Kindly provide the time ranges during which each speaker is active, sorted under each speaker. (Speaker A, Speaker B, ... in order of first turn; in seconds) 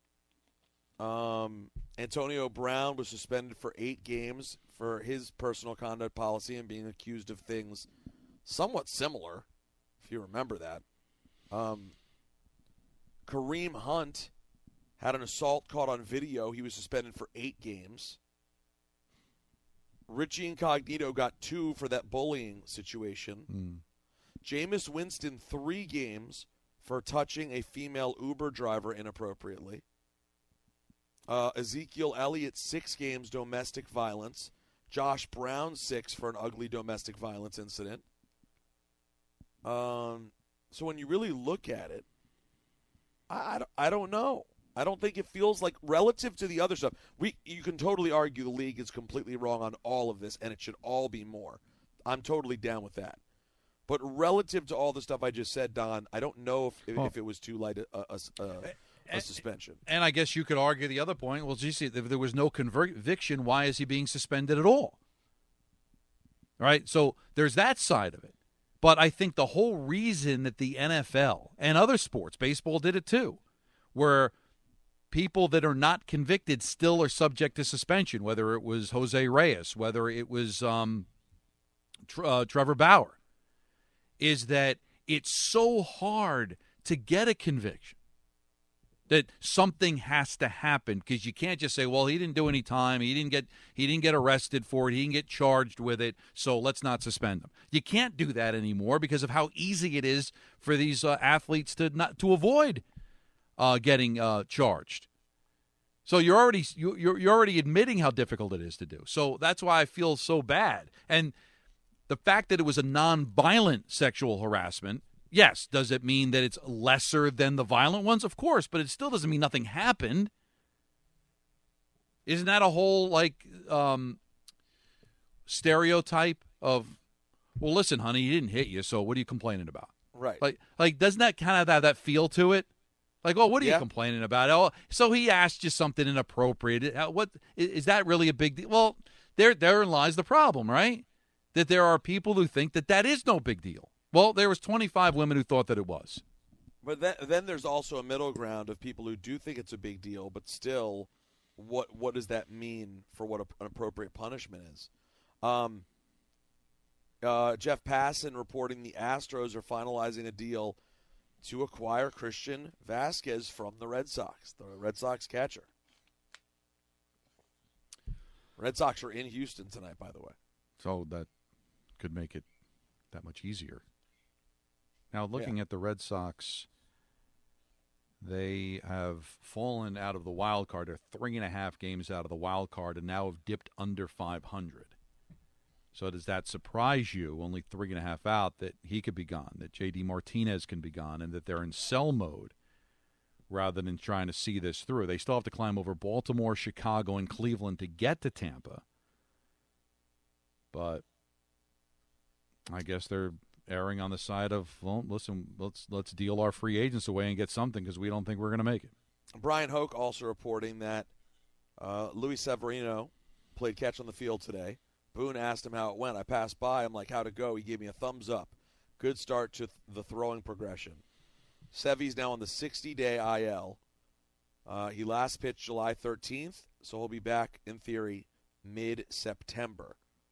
Speaker A: 1.0-7.9, 8.4-9.4, 10.0-10.8, 11.5-11.9, 13.2-14.3, 15.0-18.2, 20.1-23.5, 24.4-29.8, 31.3-38.0, 39.6-42.0, 43.3-53.2, 53.9-59.8, 130.1-130.4, 133.6-133.8, 146.8-154.9, 155.4-155.8, 157.2-160.8, 161.4-165.7, 168.6-170.3, 209.3-211.1, 211.8-221.0, 221.7-223.8, 224.7-230.0
Speaker B: 23.5-23.8, 59.9-65.0, 66.6-73.4, 73.9-74.3, 75.1-81.1, 82.1-83.2, 84.2-88.0, 89.1-102.8, 103.6-105.1, 106.0-111.3, 112.1-120.3, 122.2-124.2, 125.5-127.0, 127.6-132.7, 133.2-146.2, 170.8-171.3, 172.0-172.4, 173.1-173.8, 175.1-176.7, 178.2-184.9, 185.9-192.5, 193.5-198.8, 200.7-201.0, 202.7-208.9